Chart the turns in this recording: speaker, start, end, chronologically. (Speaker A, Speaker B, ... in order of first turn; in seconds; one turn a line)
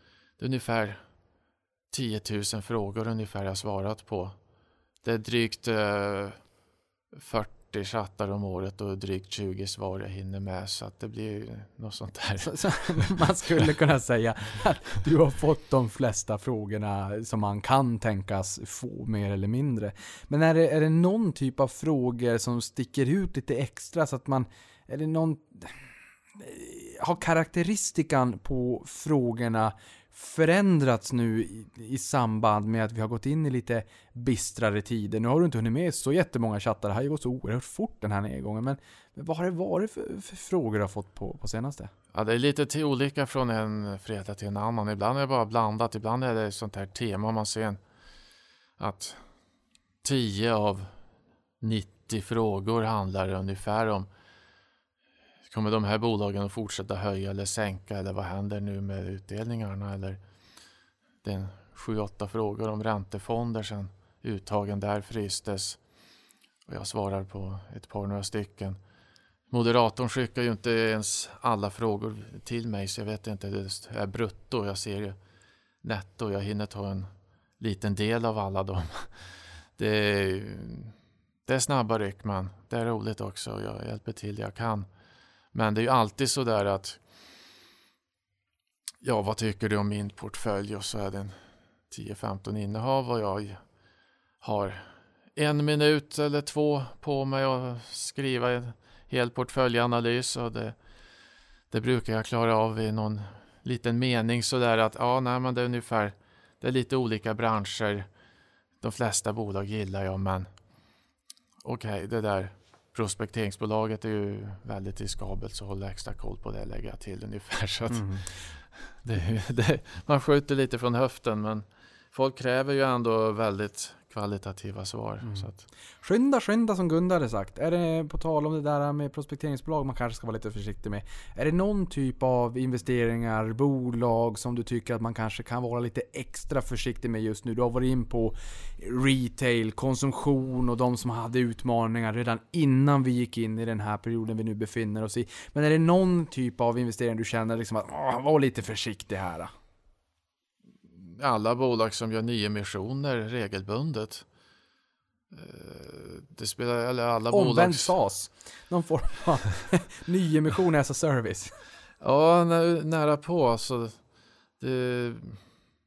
Speaker A: 0.4-1.0
Speaker A: 1.9-4.3
Speaker A: 5.0-6.4
Speaker A: 7.1-13.0
Speaker B: 12.4-25.7
Speaker B: 26.4-41.9
Speaker A: 42.1-47.8
Speaker A: 48.8-49.2
Speaker A: 50.0-50.9
Speaker A: 51.6-54.1
Speaker A: 55.5-60.2
Speaker A: 61.2-65.8
Speaker A: 66.7-68.8
Speaker A: 69.5-75.2
Speaker A: 75.8-80.9
Speaker A: 81.5-84.9
Speaker A: 85.5-87.0
Speaker A: 89.0-91.3
Speaker A: 91.9-93.6
Speaker A: 94.4-100.8
Speaker A: 101.7-108.1
Speaker A: 108.8-110.5
Speaker A: 111.6-125.6
Speaker B: 117.9-118.3
Speaker B: 125.2-125.5
Speaker B: 126.0-149.5
Speaker A: 151.0-154.2
Speaker A: 155.3-157.9
Speaker B: 157.3-161.5
Speaker A: 162.0-164.0
Speaker A: 164.6-165.4